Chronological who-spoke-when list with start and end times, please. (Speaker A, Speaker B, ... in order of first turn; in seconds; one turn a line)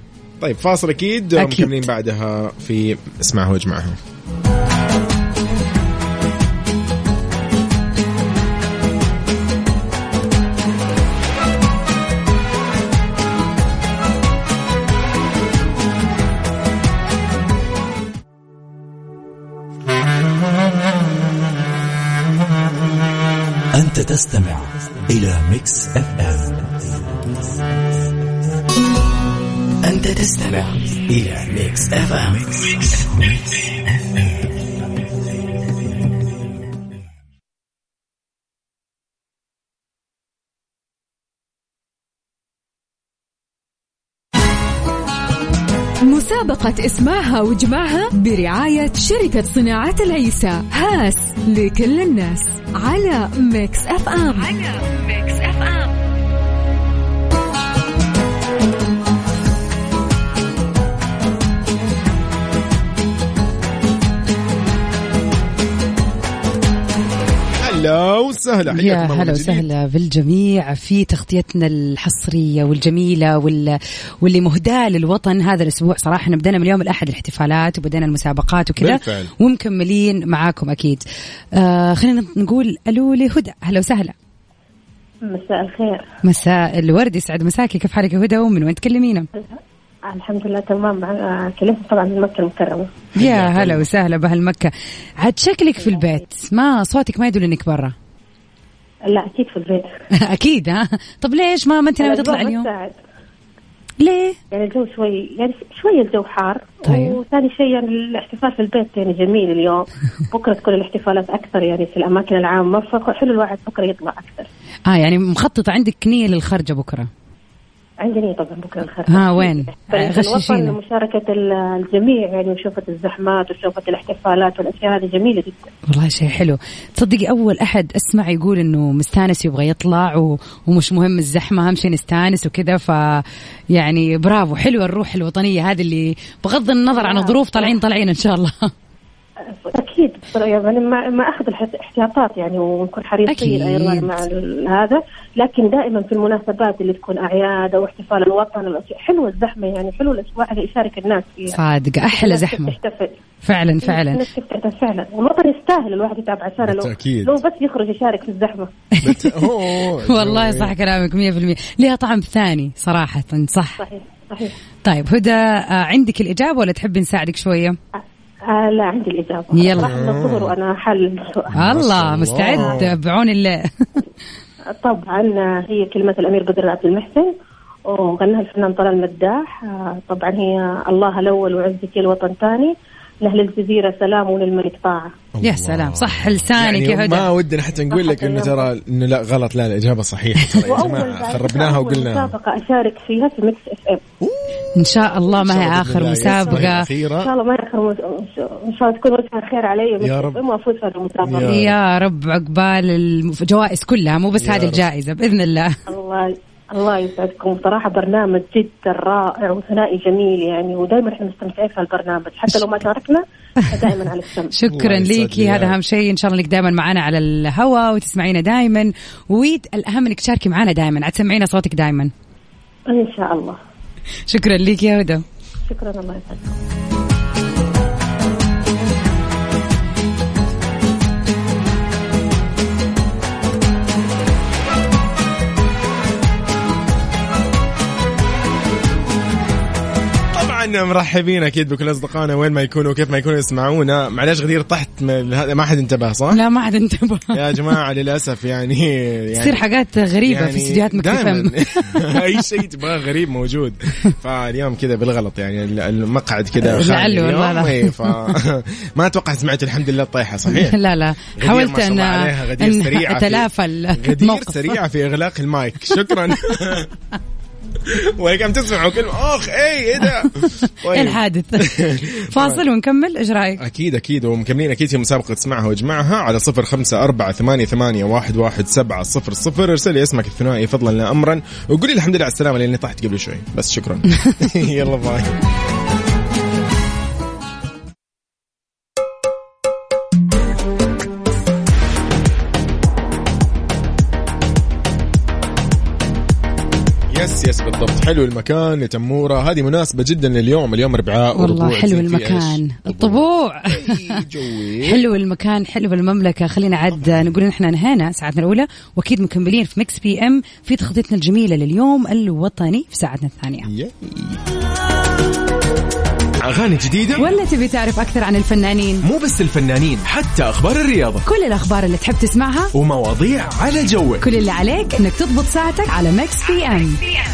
Speaker A: 0.4-4.0
Speaker B: 1.4-1.8
Speaker C: 23.7-26.8
Speaker C: 29.8-33.8
Speaker D: 46.0-55.9
Speaker A: 67.6-69.6
Speaker B: 68.7-81.0
Speaker A: 78.8-79.3
Speaker B: 81.5-84.1
Speaker E: 85.2-86.1
Speaker B: 86.2-89.3
Speaker E: 89.4-92.9
Speaker A: 93.2-93.9
Speaker B: 93.2-97.9
Speaker E: 99.1-99.9
Speaker B: 100.2-102.7
Speaker E: 102.0-103.0
Speaker B: 104.0-104.4
Speaker E: 104.5-114.5
Speaker B: 106.8-107.2
Speaker B: 114.9-117.1
Speaker E: 118.0-125.7
Speaker B: 119.1-120.7
Speaker B: 125.9-138.7
Speaker E: 136.9-137.7
Speaker E: 139.6-151.6
Speaker B: 143.2-144.1
Speaker B: 151.5-152.7
Speaker E: 152.1-153.2
Speaker B: 153.4-154.2
Speaker E: 153.8-158.7
Speaker A: 156.6-157.4
Speaker A: 159.0-160.7
Speaker B: 159.0-163.8
Speaker E: 163.8-164.5
Speaker B: 164.8-167.8
Speaker E: 168.0-171.5
Speaker B: 169.5-169.9
Speaker A: 169.7-170.5
Speaker A: 171.5-172.9
Speaker B: 171.5-174.0
Speaker E: 174.8-177.3
Speaker E: 177.9-182.7
Speaker E: 183.2-185.1
Speaker A: 185.3-192.3
Speaker B: 185.4-187.3
Speaker E: 187.9-188.7
Speaker B: 190.4-190.7
Speaker E: 190.6-194.0
Speaker A: 194.2-194.7
Speaker B: 194.8-196.9
Speaker A: 195.3-197.3
Speaker E: 196.4-196.7
Speaker E: 197.2-201.5
Speaker A: 200.0-200.4
Speaker A: 201.2-201.7
Speaker B: 201.4-205.7
Speaker A: 204.3-204.9
Speaker E: 205.9-214.5
Speaker B: 214.5-222.1
Speaker A: 214.7-215.8
Speaker E: 222.9-223.6
Speaker B: 224.3-225.2
Speaker E: 225.7-226.5
Speaker A: 240.3-246.4
Speaker B: 246.3-247.5
Speaker A: 247.3-249.6
Speaker B: 249.4-252.2
Speaker A: 250.2-260.8
Speaker B: 256.6-258.1
Speaker B: 260.5-264.8
Speaker A: 261.4-266.9
Speaker A: 267.8-272.6
Speaker B: 270.2-271.7
Speaker B: 272.3-273.6
Speaker A: 273.6-285.4
Speaker A: 297.1-305.0
Speaker B: 301.3-304.2
Speaker B: 304.8-313.7
Speaker A: 306.9-307.2
Speaker A: 313.6-314.4
Speaker A: 316.4-317.3
Speaker B: 317.1-319.1
Speaker A: 319.0-321.2
Speaker B: 321.2-322.7
Speaker A: 322.7-324.3
Speaker B: 324.2-327.0